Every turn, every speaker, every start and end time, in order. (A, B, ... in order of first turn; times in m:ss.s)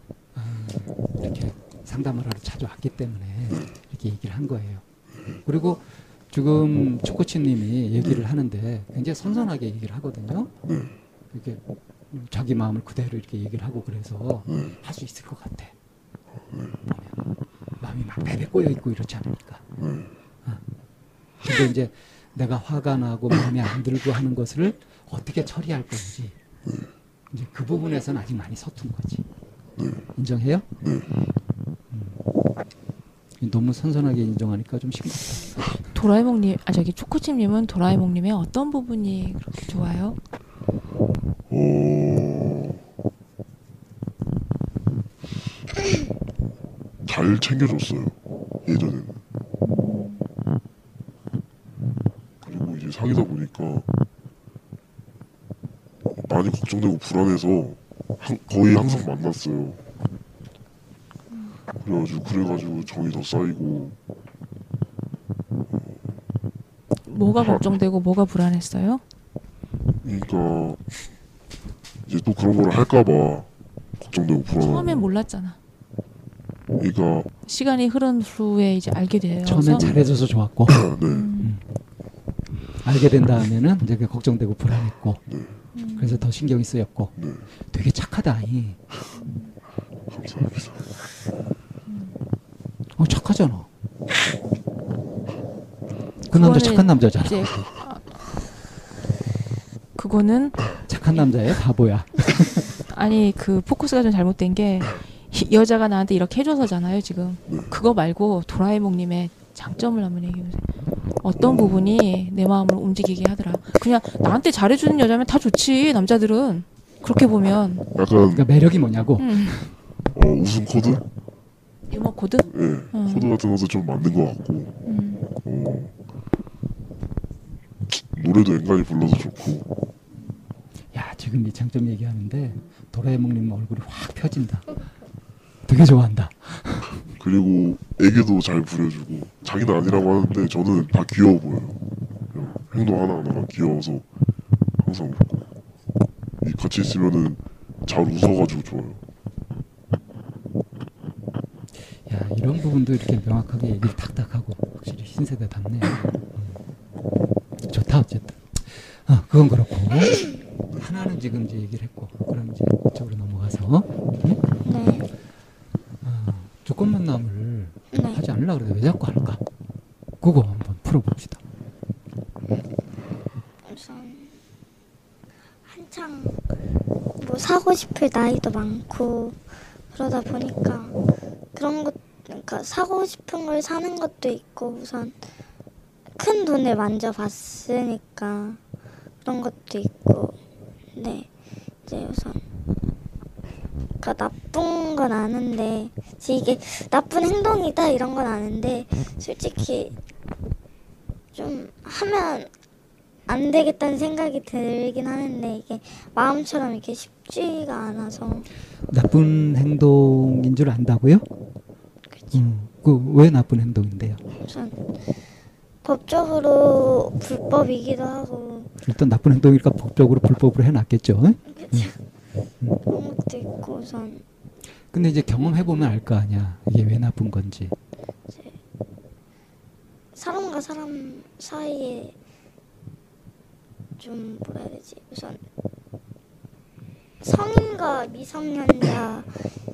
0:00.3-0:04.8 A
0:05.4-0:10.5 A
0:11.3-0:11.6 A
0:12.1-0:15.7 A
0:16.9-0:17.2 A
0:17.8-0:19.6 A
0:21.4-0:26.3 A
0:27.3-0:29.2 A
0:30.2-0:30.6 A
0:31.9-0:32.2 A
0:33.4-0:35.8 A
0:35.9-0:40.2 B
0:41.5-0:42.8 C
0:47.0-0:49.2 C
0:49.6-0:50.2 B
0:52.4-0:53.9 C
0:56.2-0:59.8 C
1:01.3-1:01.6 B
1:01.8-1:04.0 C
1:07.0-1:09.0 B
1:10.0-1:10.8 C
1:12.0-1:13.5 C
1:14.0-1:15.0 C
1:14.5-1:15.6 B
1:16.8-1:17.3 C
1:17.4-1:20.0 B
1:19.4-1:21.6 A
1:20.8-1:21.3 C
1:21.0-1:21.5 B
1:22.8-1:25.2 A
1:25.7-1:26.3 B
1:26.0-1:27.1 A
1:27.7-1:28.8 A
1:29.2-1:29.5 B
1:30.1-1:30.8 C
1:31.9-1:32.2 B
1:33.0-1:33.7 A
1:36.3-1:37.6 A
1:36.3-1:38.1 B
1:40.0-1:40.8 B
1:40.9-1:42.7 A
1:42.9-1:57.8 B
1:57.9-1:58.4 C
1:58.3-1:59.6 A
1:59.2-1:59.7 B
2:00.1-2:01.0 C
2:01.9-2:03.3 B
2:02.5-2:04.8 C
2:04.8-2:05.2 B
2:05.4-2:05.9 C
2:07.9-2:09.6 C
2:10.9-2:14.7 A
2:15.7-2:16.9 A
2:17.1-2:21.8 C
2:22.3-2:24.0 C
2:24.8-2:25.3 C
2:26.4-2:29.0 C
2:32.0-2:36.6 A
2:37.7-2:44.4 A
2:44.6-2:45.0 D
2:46.0-2:49.4 A
2:47.9-2:48.2 D
2:50.2-2:51.4 A
2:53.7-2:54.4 D
2:55.6-2:56.4 D
2:57.2-2:59.4 D
2:59.9-3:00.9 D
3:01.5-3:05.2 D
3:06.2-3:08.6 D
3:09.2-3:10.3 D
3:10.9-3:11.3 D
3:11.9-3:12.4 D
3:14.0-3:19.9 D
3:21.3-3:22.5 D
3:23.3-3:28.5 D
3:28.9-3:31.2 A
3:32.3-3:34.2 A
3:34.5-3:34.8 D
3:35.8-3:38.7 D
3:38.8-3:41.9 A
3:41.5-3:41.9 D
3:42.9-3:44.2 D
3:44.9-3:47.7 A
3:48.3-3:48.5 D
3:50.2-3:52.1 D
3:54.0-3:55.4 D
3:57.2-3:59.4 D